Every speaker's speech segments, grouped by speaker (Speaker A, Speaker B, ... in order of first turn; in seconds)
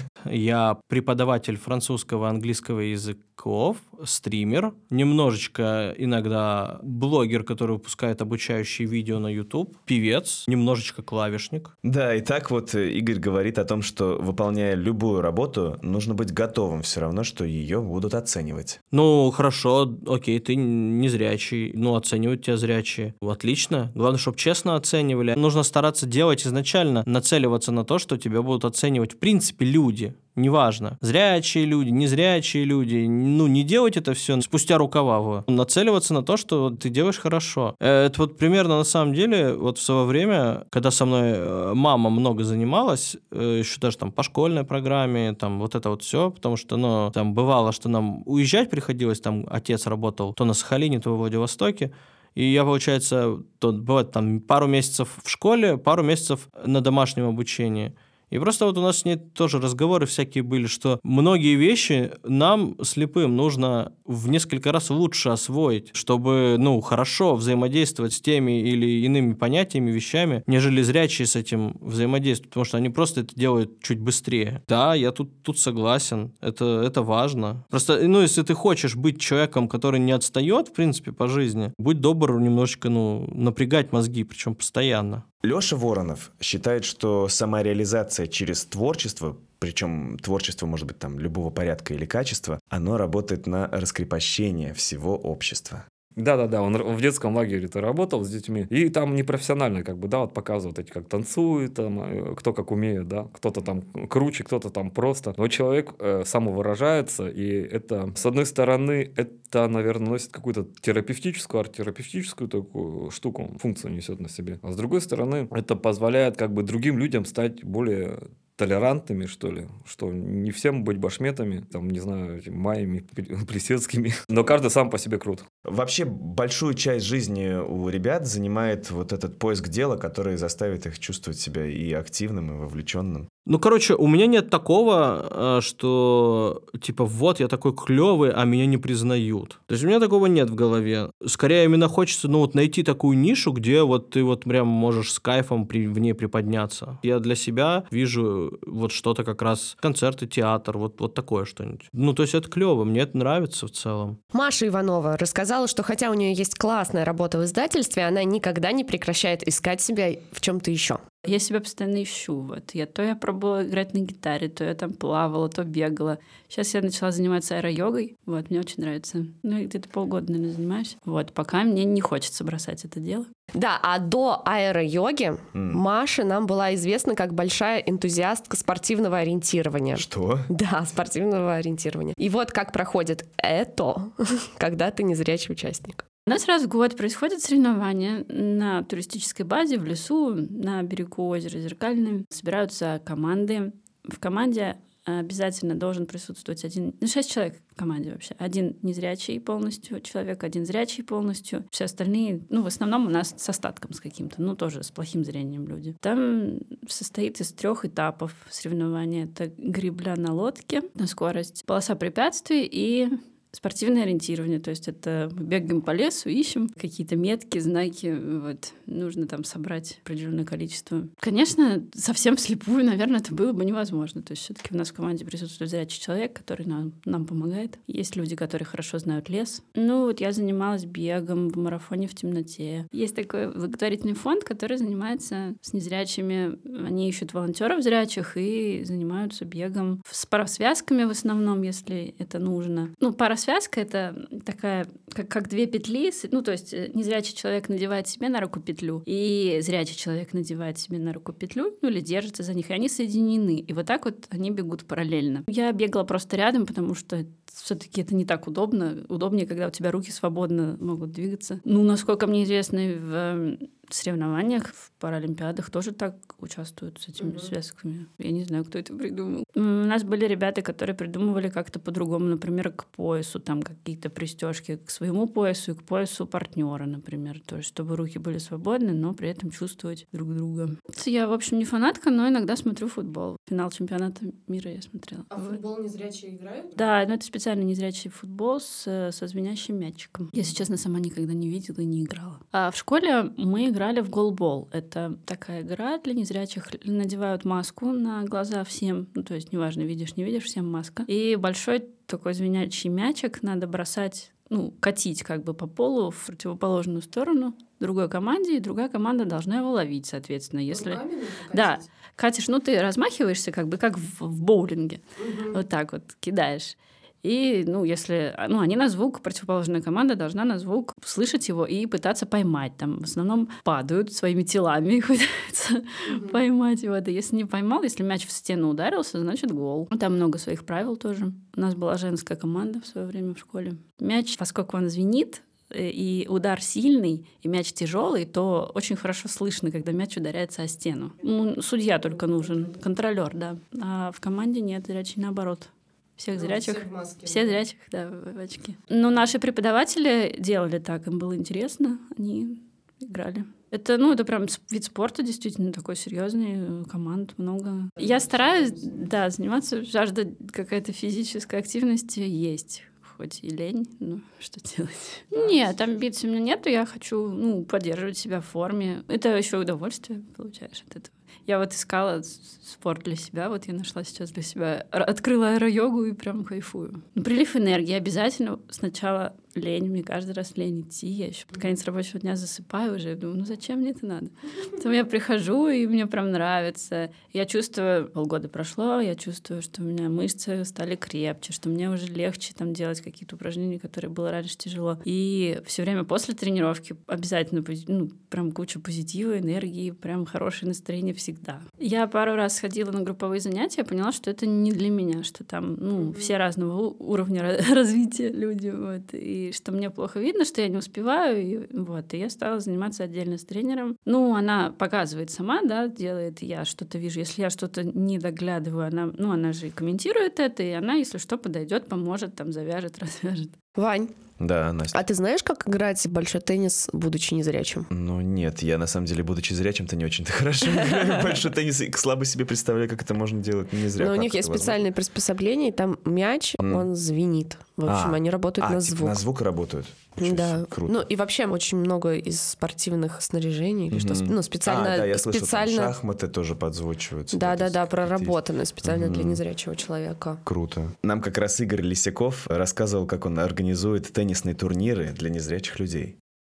Speaker A: 0.3-11.7, 18.9-85.2, 133.5-154.2
Speaker B: 11.8-18.8, 85.4-95.8, 125.7-133.3, 175.5-175.8, 179.9-180.5, 424.4-425.0, 427.9-434.8, 436.6-436.9, 437.9-441.0, 443.9-449.4, 450.4-456.2
Speaker C: 96.2-125.4
Speaker D: 154.3-161.0, 173.6-186.0, 285.9-286.5, 423.8-424.1, 424.9-427.9, 434.0-439.2, 440.2-446.0, 447.3-450.4
Speaker E: 161.2-173.3, 186.3-285.6, 286.8-423.5